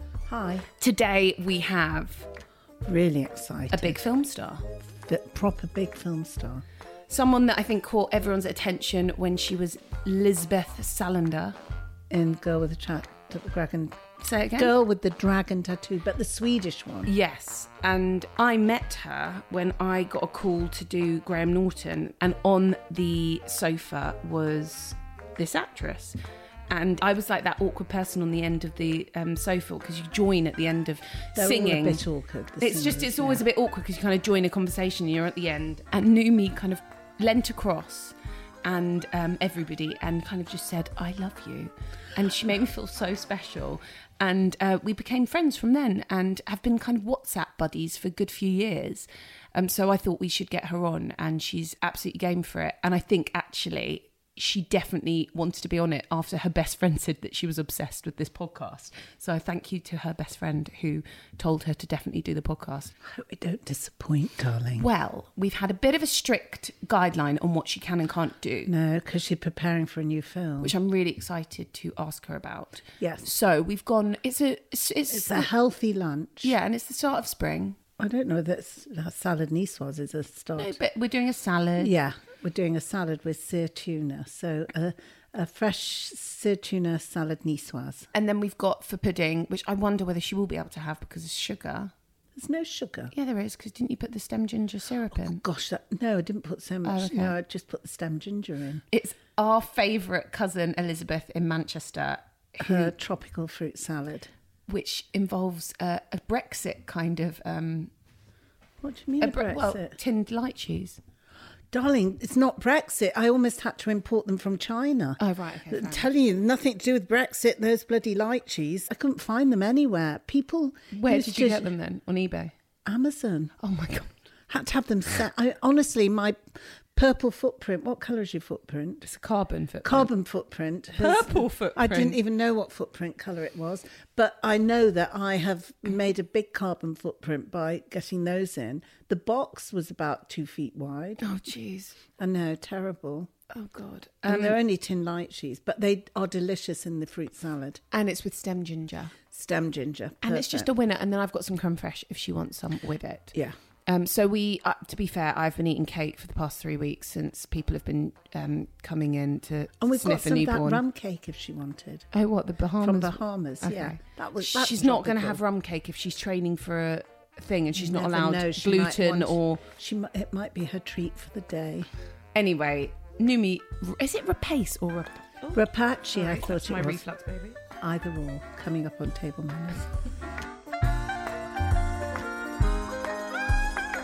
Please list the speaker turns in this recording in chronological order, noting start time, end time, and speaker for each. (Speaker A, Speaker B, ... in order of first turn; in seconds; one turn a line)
Speaker A: 0.2-0.7
Speaker B: 0.8-2.3
Speaker A: 2.8-4.0
Speaker B: 3.7-4.7
Speaker A: 5.1-6.6
Speaker B: 7.1-11.6
Speaker A: 12.1-17.1
Speaker B: 14.2-14.7
Speaker B: 17.0-26.2
Speaker B: 26.7-32.0
Speaker A: 31.4-33.4
Speaker B: 32.6-62.9
Speaker A: 63.0-64.8
Speaker B: 64.8-68.7
Speaker A: 68.7-70.7
Speaker B: 70.6-75.5
Speaker A: 73.0-73.2
Speaker A: 75.1-76.5
Speaker B: 76.4-77.8
Speaker A: 78.0-80.8
Speaker B: 80.6-81.9
Speaker A: 81.8-88.1
Speaker B: 88.1-91.9
Speaker A: 92.3-93.1
Speaker B: 93.1-95.4
Speaker A: 95.2-98.8
Speaker B: 96.8-97.3
Speaker B: 98.9-102.9
Speaker A: 102.6-104.3
Speaker B: 104.7-107.9
Speaker A: 108.8-110.0
Speaker B: 109.2-111.0
Speaker A: 111.7-121.7
Speaker B: 115.2-116.1
Speaker B: 120.9-122.5
Speaker A: 122.8-123.5
Speaker B: 123.6-124.1
Speaker A: 124.5-129.0
Speaker B: 129.0-130.1
Speaker A: 129.8-141.3
Speaker B: 130.9-132.2
Speaker B: 141.2-142.0
Speaker A: 142.2-143.3
Speaker B: 143.5-144.6
Speaker A: 144.2-147.8
Speaker B: 147.9-149.2
Speaker A: 149.3-150.7
Speaker B: 150.2-160.8
Speaker A: 159.8-162.1
Speaker B: 162.1-169.6
Speaker A: 162.8-165.4
Speaker A: 167.7-171.9
Speaker B: 172.3-177.6
Speaker A: 175.5-177.0
Speaker A: 177.8-179.9